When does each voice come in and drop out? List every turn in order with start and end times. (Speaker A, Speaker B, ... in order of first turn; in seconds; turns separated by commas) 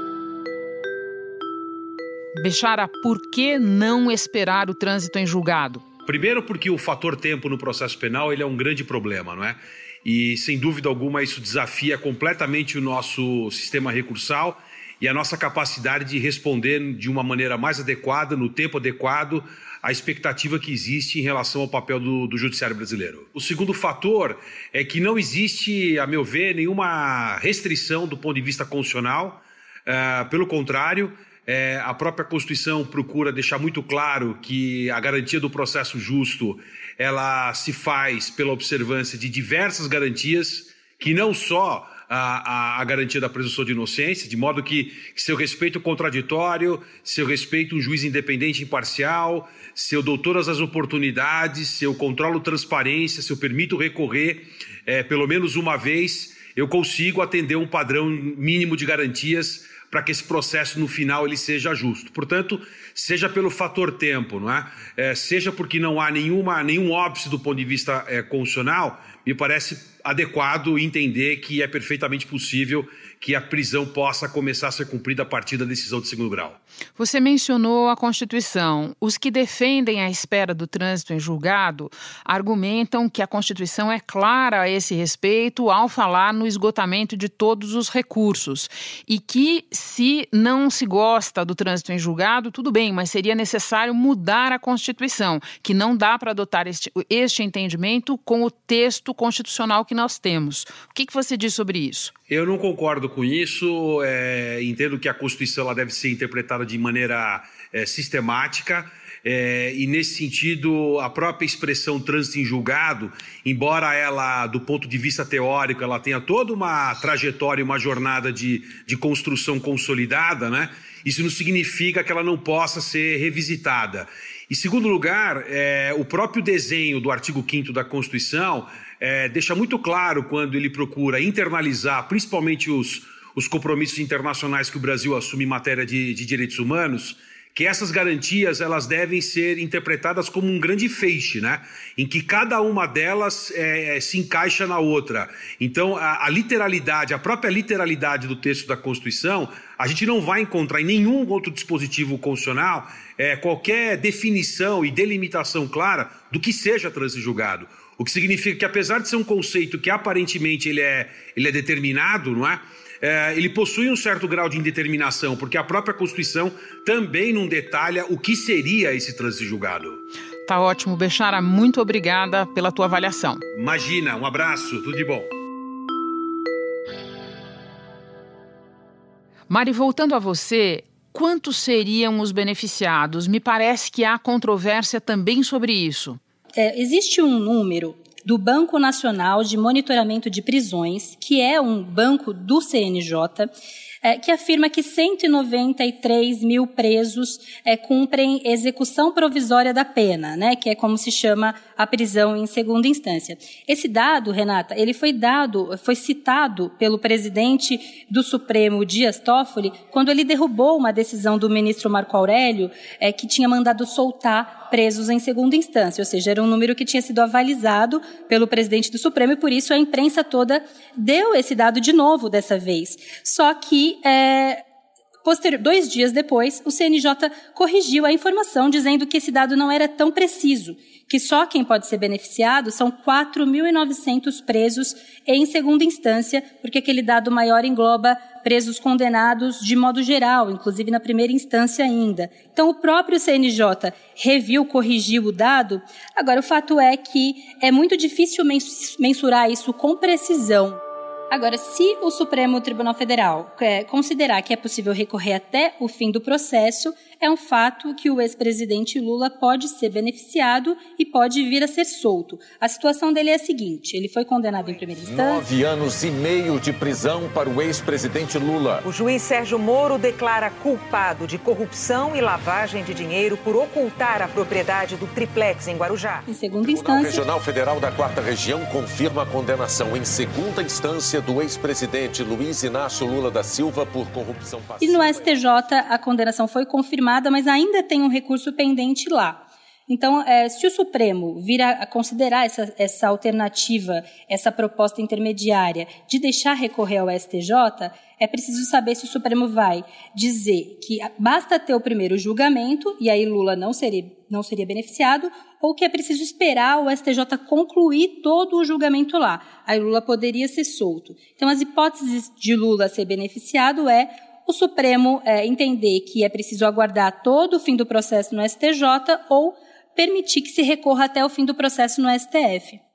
Speaker A: 2.3-5.8, Speaker B: 6.1-76.6, Speaker A: 77.0-102.1, Speaker B: 102.3-170.0, Speaker A: 170.5-173.4, Speaker B: 173.5-175.3, Speaker A: 179.5-186.2, Speaker C: 186.6-193.5, Speaker C: 194.0-224.6, Speaker C: 225.2-250.8, Speaker C: 251.3-265.5, Speaker D: 265.1-268.9, Speaker E: 268.8-276.2, Speaker C: 276.3-277.3, Speaker D: 276.6-285.3, Speaker C: 284.8-322.8